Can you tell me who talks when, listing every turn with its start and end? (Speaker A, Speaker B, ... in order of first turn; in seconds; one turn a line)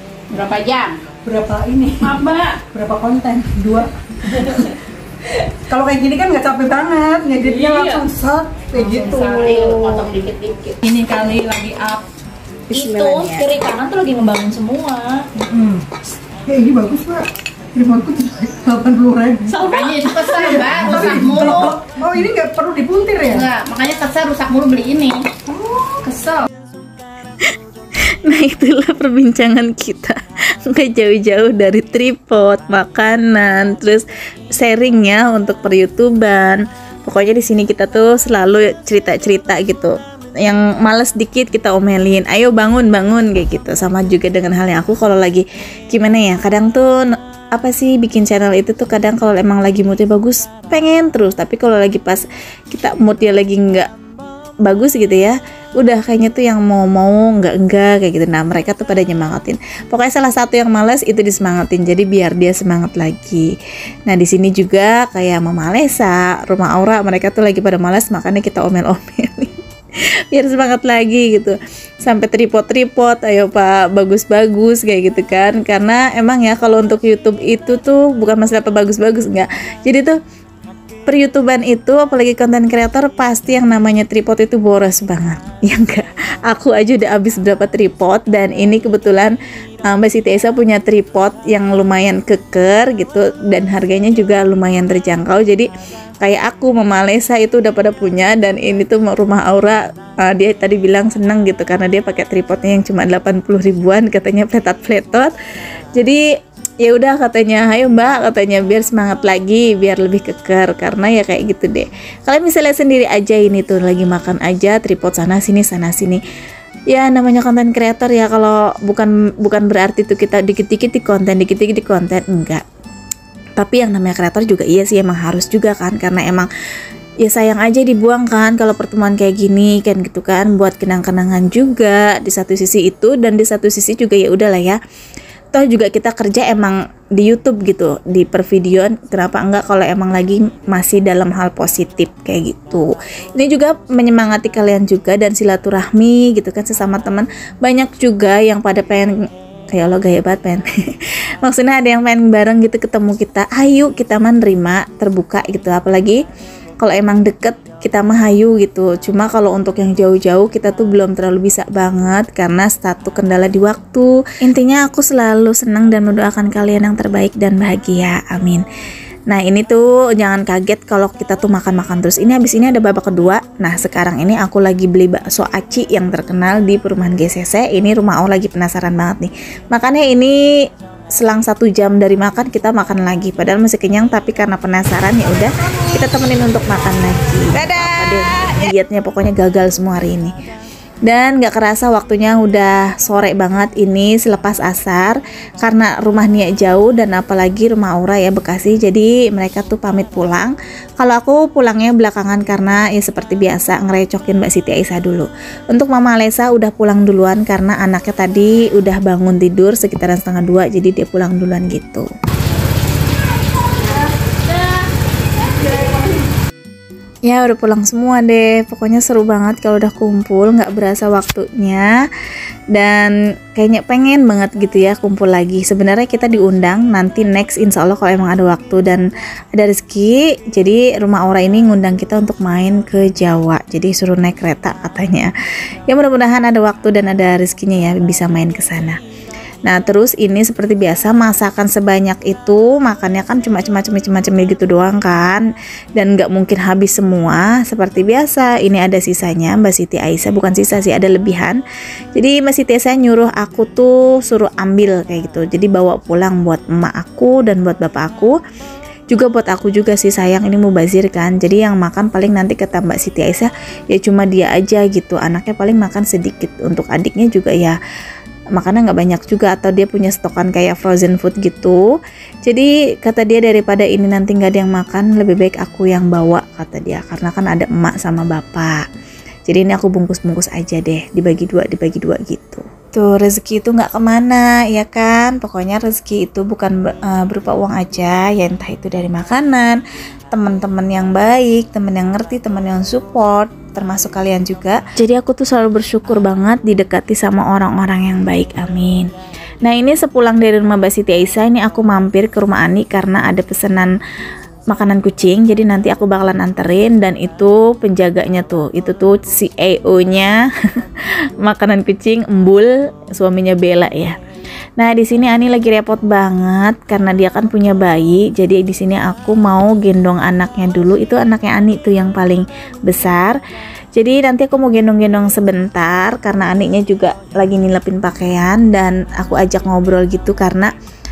Speaker A: 0.3-1.0
Speaker B: 1.2-4.7
Speaker A: 2.0-2.6
Speaker B: 5.7-10.0
Speaker C: 7.5-8.0
Speaker C: 8.8-9.8
Speaker A: 9.0-10.8
Speaker C: 10.8-12.0
Speaker D: 12.7-13.6
Speaker A: 12.7-13.8
Speaker C: 13.3-15.1
Speaker B: 15.5-15.9
Speaker B: 16.5-23.5
Speaker C: 19.5-19.8
Speaker A: 19.7-21.8
Speaker A: 23.3-25.3
Speaker B: 25.5-26.1
Speaker A: 25.9-26.5
Speaker D: 28.2-53.9
Speaker D: 54.6-63.5
Speaker D: 64.1-69.5
Speaker D: 70.3-80.2
Speaker D: 81.1-89.3
Speaker D: 89.9-95.7
Speaker D: 96.2-105.3
Speaker D: 106.0-106.2
Speaker D: 106.8-116.2
Speaker D: 116.9-122.6
Speaker D: 123.6-126.5
Speaker D: 127.2-134.8
Speaker D: 135.5-149.1
Speaker D: 149.7-156.2
Speaker D: 156.8-168.6
Speaker D: 169.3-180.4
Speaker D: 181.2-190.3
Speaker D: 191.1-212.1
Speaker A: 213.8-214.6
Speaker A: 215.5-216.1
Speaker D: 217.3-221.9
Speaker D: 222.7-229.0
Speaker D: 229.6-235.3
Speaker D: 235.9-239.0
Speaker D: 239.7-251.6
Speaker D: 252.1-258.4
Speaker D: 259.1-267.8
Speaker D: 268.5-271.8
Speaker D: 272.4-278.8
Speaker D: 279.5-299.1
Speaker D: 299.6-303.9
Speaker D: 304.7-310.4
Speaker D: 310.9-314.1
Speaker D: 314.8-323.4
Speaker D: 323.9-330.7